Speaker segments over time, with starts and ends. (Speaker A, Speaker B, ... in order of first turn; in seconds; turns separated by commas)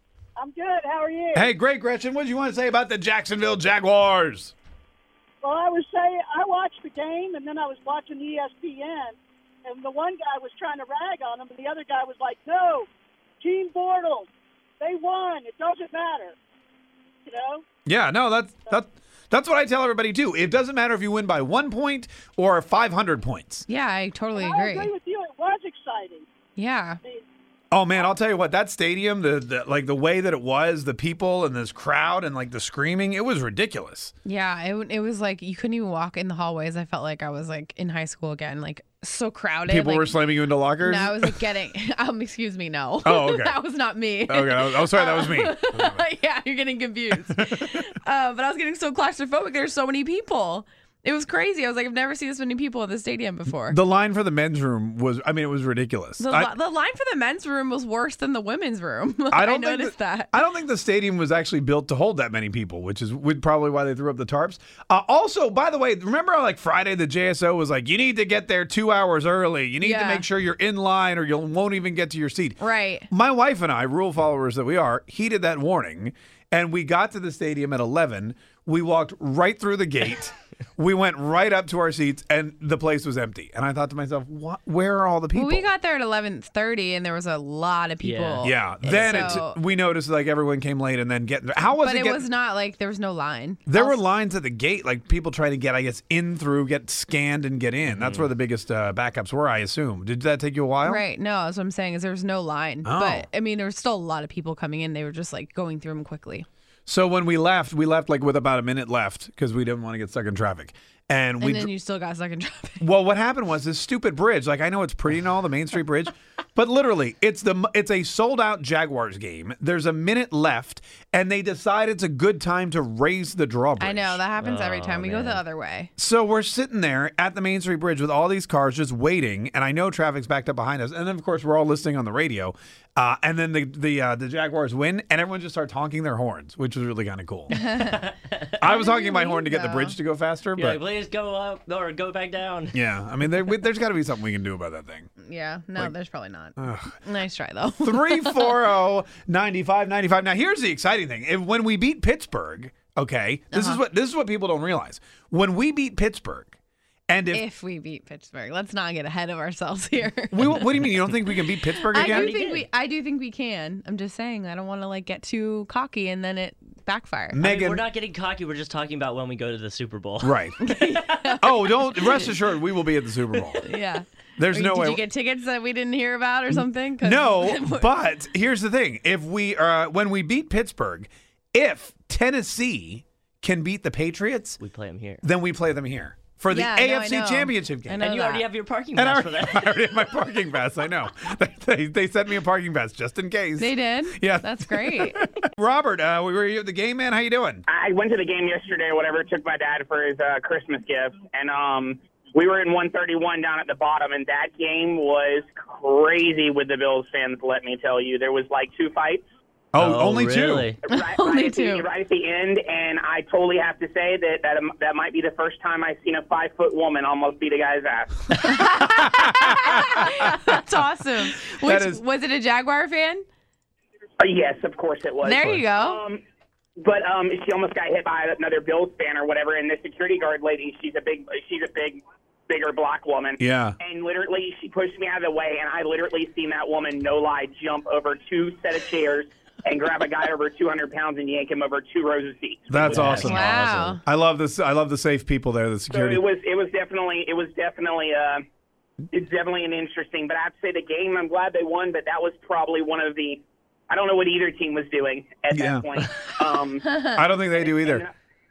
Speaker A: 0.4-1.5, Speaker B: 1.3-4.5, Speaker A: 5.4-12.9, Speaker A: 13.4-14.3, Speaker A: 14.8-16.4, Speaker A: 17.2-17.6, Speaker B: 17.9-23.7, Speaker C: 23.7-24.9, Speaker A: 24.4-26.3, Speaker C: 26.6-27.0, Speaker B: 27.7-34.1, Speaker C: 34.2-40.2, Speaker B: 39.7-41.4, Speaker C: 40.8-53.8, Speaker B: 43.0-43.6, Speaker B: 44.3-46.0, Speaker B: 47.4-47.8, Speaker B: 53.5-56.5, Speaker C: 56.2-60.4, Speaker B: 59.3-85.7, Speaker C: 69.8-70.3, Speaker C: 72.6-73.1, Speaker C: 85.3-89.6, Speaker D: 88.0-89.1, Speaker B: 88.4-92.3, Speaker C: 91.7-94.0, Speaker B: 93.7-101.0, Speaker D: 97.9-98.3, Speaker C: 100.8-106.5, Speaker B: 102.8-103.3, Speaker B: 106.9-111.7, Speaker C: 111.4-112.9, Speaker B: 112.8-124.2, Speaker C: 123.8-125.9, Speaker D: 124.4-125.4, Speaker B: 126.0-137.6, Speaker D: 137.5-138.5, Speaker C: 137.7-137.9, Speaker B: 138.6-140.8, Speaker C: 138.7-140.0, Speaker D: 140.6-142.8, Speaker B: 142.7-145.1, Speaker C: 145.2-148.6, Speaker B: 146.6-147.0, Speaker B: 147.8-156.6, Speaker C: 153.5-153.8, Speaker B: 157.1-157.4, Speaker C: 157.3-161.0, Speaker B: 160.3-162.3, Speaker C: 161.9-167.4, Speaker D: 161.9-162.7, Speaker B: 167.3-167.8, Speaker D: 167.4-171.5, Speaker B: 170.2-170.7, Speaker C: 170.6-172.3, Speaker B: 171.4-173.7, Speaker C: 173.6-178.0, Speaker B: 174.4-175.1, Speaker B: 177.0-184.6, Speaker D: 184.6-185.2, Speaker B: 185.2-188.1, Speaker C: 186.5-188.5, Speaker D: 188.0-189.8, Speaker B: 188.9-197.6, Speaker C: 193.6-195.2, Speaker E: 197.7-209.2, Speaker B: 209.7-210.7, Speaker D: 209.8-210.8, Speaker E: 210.8-218.4, Speaker C: 210.9-211.9, Speaker C: 218.4-223.2, Speaker B: 218.7-219.9, Speaker B: 221.5-222.0, Speaker E: 224.2-226.2, Speaker C: 225.2-226.0, Speaker E: 226.8-243.2, Speaker B: 233.4-233.8, Speaker B: 242.7-246.2, Speaker D: 242.8-244.0, Speaker C: 243.2-244.0, Speaker E: 245.9-248.4, Speaker E: 249.1-256.9, Speaker B: 255.5-255.9, Speaker B: 257.1-258.0, Speaker E: 257.6-258.1